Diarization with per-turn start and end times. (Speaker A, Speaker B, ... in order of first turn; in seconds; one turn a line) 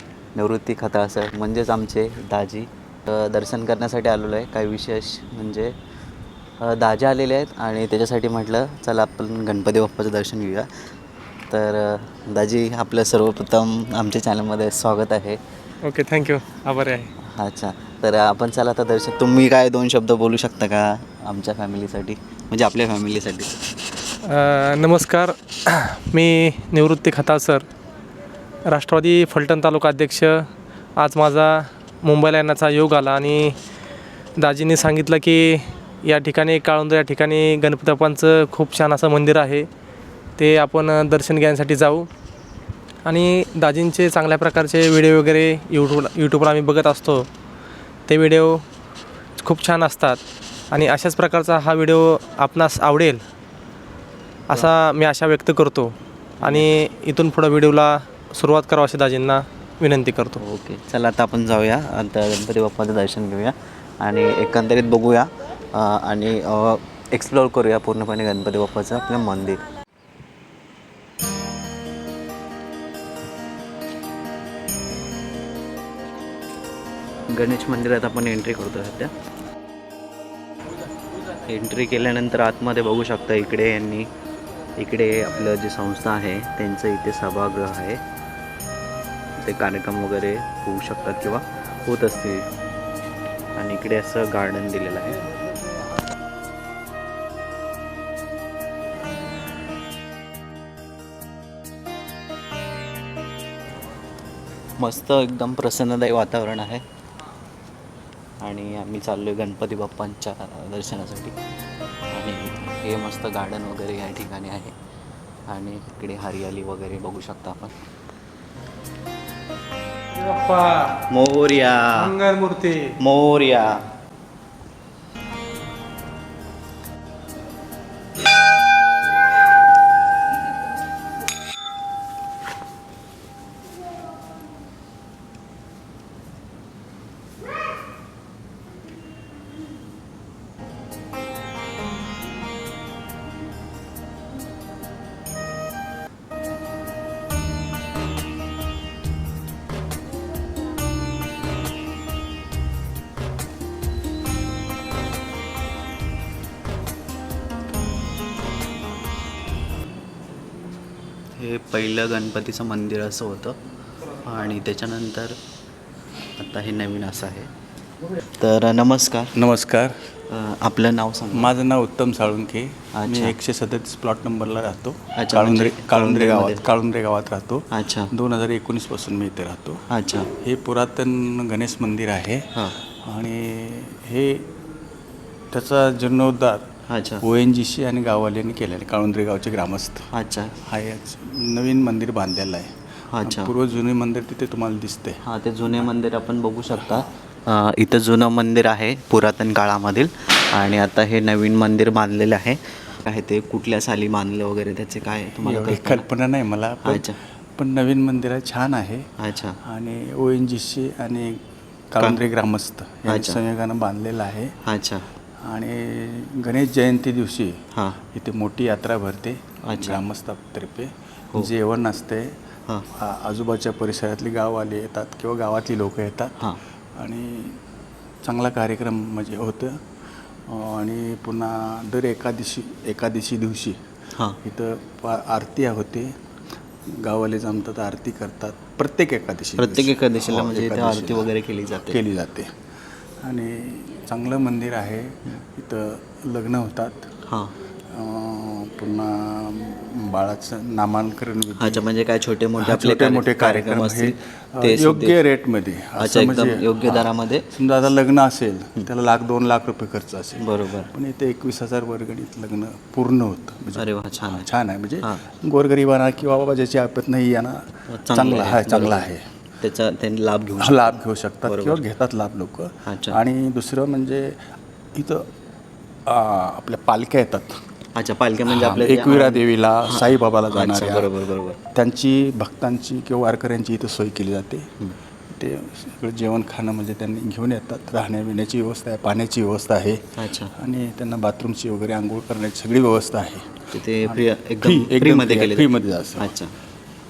Speaker A: 0.3-5.7
Speaker A: 6.6-10.7
Speaker A: 11.5-15.4
Speaker B: 15.8-17.1
Speaker A: 17.2-23.6
Speaker B: 24.2-27.6
Speaker B: 28.6-33.6
Speaker B: 34.4-39.7
Speaker B: 40.4-42.1
Speaker B: 43.0-47.3
Speaker B: 48.1-48.6
Speaker B: 49.4-53.2
Speaker B: 54.5-60.4
Speaker A: 56.4-56.7
Speaker A: 60.4-69.6
Speaker A: 77.3-79.1
Speaker A: 81.4-84.1
Speaker A: 84.8-88.0
Speaker A: 89.4-92.5
Speaker A: 93.5-95.2
Speaker A: 104.8-106.8
Speaker A: 108.4-111.3
Speaker A: 112.1-114.7
Speaker A: 115.5-117.7
Speaker B: 120.1-121.0
Speaker A: 121.1-122.1
Speaker B: 121.9-123.0
Speaker A: 123.0-123.8
Speaker A: 161.3-163.6
Speaker A: 164.1-165.4
Speaker A: 166.4-167.5
Speaker A: 168.4-169.3
Speaker C: 169.3-170.0
Speaker A: 170.3-171.5
Speaker C: 171.3-179.8
Speaker A: 172.9-173.3
Speaker A: 175.1-176.7
Speaker A: 177.7-178.1
Speaker A: 179.9-180.3
Speaker C: 180.4-184.5
Speaker C: 185.5-186.7
Speaker A: 186.9-187.2
Speaker C: 187.2-190.1
Speaker A: 190.1-190.6
Speaker C: 190.6-195.2
Speaker A: 193.1-193.5
Speaker A: 195.2-206.1
Speaker C: 205.4-209.1
Speaker A: 206.8-207.2
Speaker A: 209.2-209.6
Speaker C: 209.6-214.5
Speaker A: 213.1-213.4
Speaker A: 214.6-215.1
Speaker C: 215.4-217.6
Speaker A: 217.7-218.0
Speaker C: 218.1-222.3
Speaker A: 219.6-220.0
Speaker C: 222.9-226.4
Speaker C: 227.0-227.6
Speaker C: 228.2-229.8
Speaker C: 230.4-233.8
Speaker C: 234.4-236.1
Speaker C: 236.9-242.5
Speaker A: 239.6-242.0
Speaker C: 243.2-247.1
Speaker A: 247.2-247.6
Speaker C: 247.9-251.8
Speaker A: 251.6-255.2
Speaker C: 252.6-269.2
Speaker A: 256.0-257.5
Speaker A: 260.4-260.9
Speaker A: 263.8-264.5
Speaker A: 267.9-269.1
Speaker A: 269.6-271.8
Speaker C: 270.6-275.3
Speaker A: 272.9-273.2
Speaker C: 276.1-277.6
Speaker A: 277.9-281.6
Speaker C: 278.5-281.1
Speaker C: 281.7-284.7
Speaker C: 285.3-296.3
Speaker A: 290.2-290.5
Speaker A: 293.7-296.5